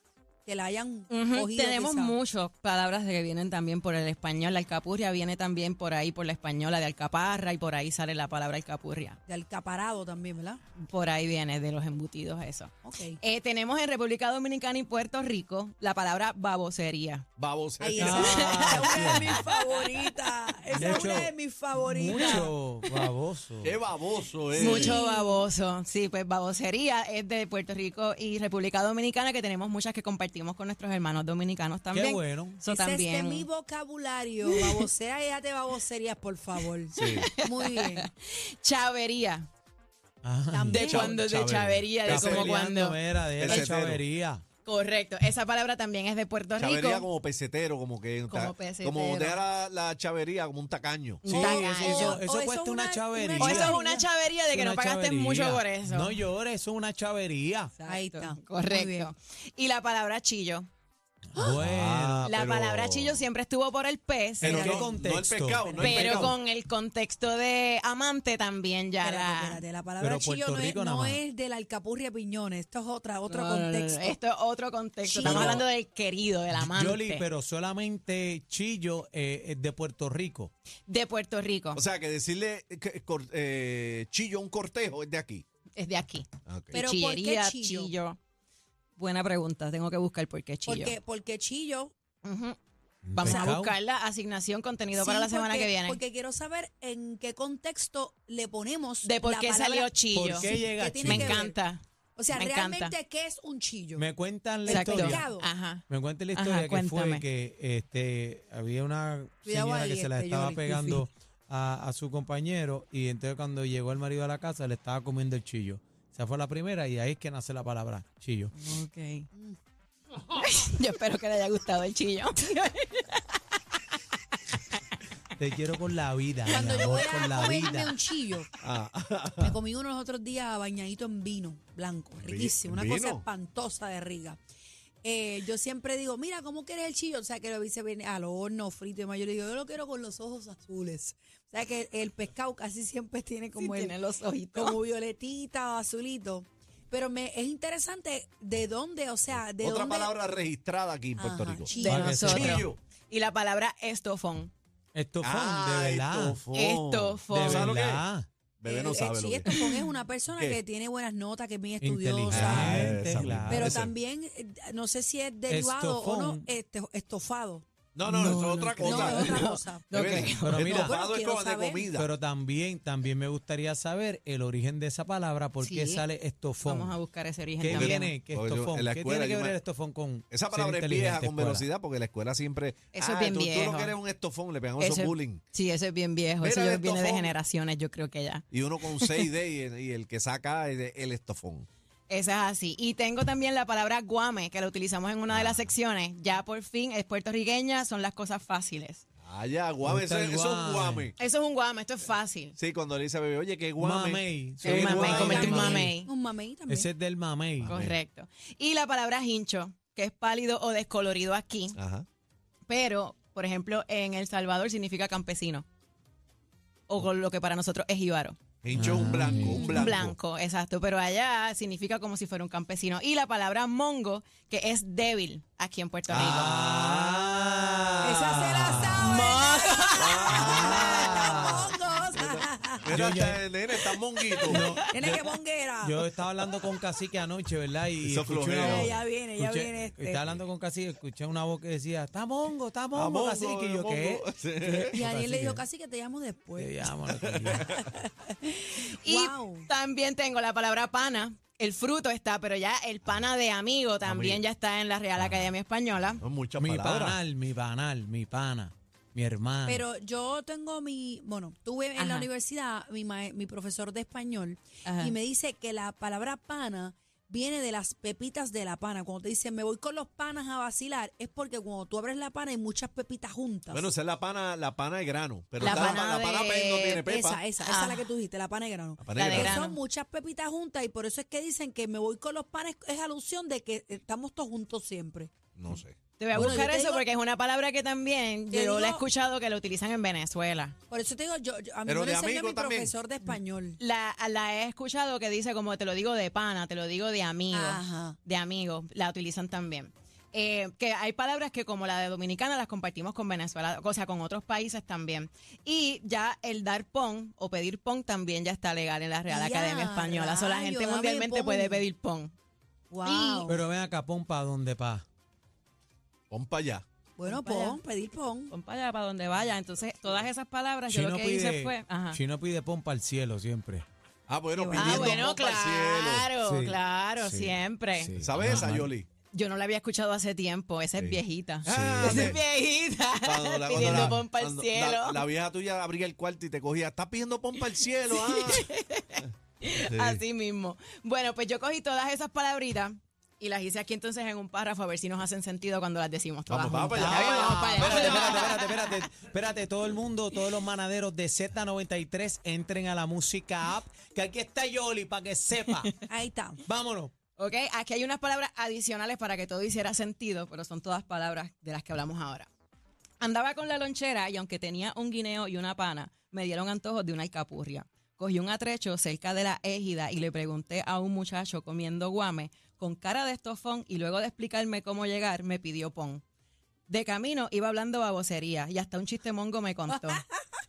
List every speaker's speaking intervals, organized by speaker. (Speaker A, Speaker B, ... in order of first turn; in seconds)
Speaker A: 0.5-2.2, 9.3-10.6, 12.8-13.2, 17.8-22.5, 24.5-25.5, 32.6-38.1, 40.5-41.2, 51.3-54.1, 57.9-59.1, 65.6-66.3, 69.0-74.2, 75.0-75.7, 86.7-87.9, 90.7-91.9, 93.2-93.6, 94.9-101.6, 102.2-104.0, 104.7-105.5, 109.5-111.0, 126.5-128.5, 129.4-134.4, 135.0-144.0, 144.5-150.1, 151.2-152.5, 158.7-167.7, 168.8-171.9, 204.9-206.9, 218.9-219.9, 228.0-232.9, 234.3-236.0, 238.6-240.2, 244.9-246.9, 247.5-248.3, 249.1-249.7, 259.7-273.9, 275.6-276.0, 277.0-285.3, 286.3-287.1, 288.5-289.1, 290.9-293.8, 297.5-298.2, 309.3-311.9, 312.9-313.6, 317.2-318.5, 324.6-325.2, 356.1-356.6, 379.9-380.2
Speaker B: 1.1-9.2, 10.8-17.3, 18.1-19.9, 20.7-21.1, 24.6-33.5, 34.5-34.9, 37.0-39.5, 40.7-43.0, 44.6-47.1, 48.3-49.4, 51.2-52.2, 53.4-56.2, 57.8-60.7, 62.2-64.9, 65.8-69.6, 73.3-77.3, 80.9-81.8, 85.8-88.2, 89.0-91.0, 92.2-92.6, 93.2-96.0, 99.0-101.8, 102.3-103.0, 104.7-107.2, 118.5-119.3, 120.3-123.2, 143.6-144.8, 151.7-154.5, 156.5-157.8, 159.5-159.8, 168.1-170.7, 175.6-176.0, 176.6-178.1, 182.9-184.0, 184.8-189.3, 192.1-199.0, 201.2-202.6, 204.6-206.1, 207.7-211.8, 212.7-215.7, 216.9-218.4, 219.6-226.7, 229.0-230.9, 248.6-256.2, 262.0-262.3, 264.9-265.1, 275.6-277.1, 277.6-278.1, 279.2-279.8, 286.2-290.7, 293.2-312.3, 313.0-313.6, 317.2-317.8, 318.5-322.2, 324.7-328.1, 329.3-335.2, 338.1-349.1, 357.4-362.5, 363.2-376.2, 376.9-380.2
Speaker C: 17.4-18.3, 23.6-25.0, 37.0-37.3, 40.9-42.5, 43.4-44.0, 46.6-51.3, 61.5-63.3, 64.4-66.4, 81.7-85.5, 86.5-86.8, 128.6-129.5, 132.2-133.2, 149.4-151.7, 152.2-152.8, 155.2-158.0, 158.6-159.5, 162.3-163.9, 167.9-172.1, 177.7-179.6, 180.3-185.4, 186.4-187.3, 188.5-191.7, 195.3-195.7, 199.2-201.2, 202.6-205.8, 207.6-208.0, 211.8-212.1, 218.6-220.2, 226.1-228.1, 230.0-235.2, 238.0-238.9, 242.9-245.0, 247.3-247.8, 254.0-254.4, 256.2-257.2, 273.7-277.4, 279.0-279.6, 285.6-286.7, 291.9-292.9, 316.3-316.8, 324.3-326.3, 328.2-329.1, 331.0-332.4, 333.2-338.7, 339.7-340.2, 346.5-348.6
Speaker D: 18.0-19.4, 20.8-23.8, 31.9-32.6, 40.2-40.9, 42.1-44.4, 51.2-53.8, 54.5-57.7, 61.3-62.4, 64.4-66.2, 70.0-71.2, 75.2-75.7, 76.6-80.5, 93.0-93.8, 100.1-101.4, 104.0-105.3, 105.9-118.5, 125.4-128.0, 151.8-152.7, 154.9-156.4, 157.3-158.3, 161.8-163.8, 165.5-166.5, 170.4-170.9, 172.0-177.0, 177.6-181.7, 199.8-201.1, 203.8-206.0, 206.7-207.8, 218.7-219.7, 226.1-229.3, 230.3-231.7, 232.8-233.4, 234.4-235.2, 235.8-245.6, 246.6-247.8, 256.6-259.8, 313.5-315.1, 320.9-323.9, 326.4-328.9, 333.8-334.2, 346.9-355.9, 356.7-357.1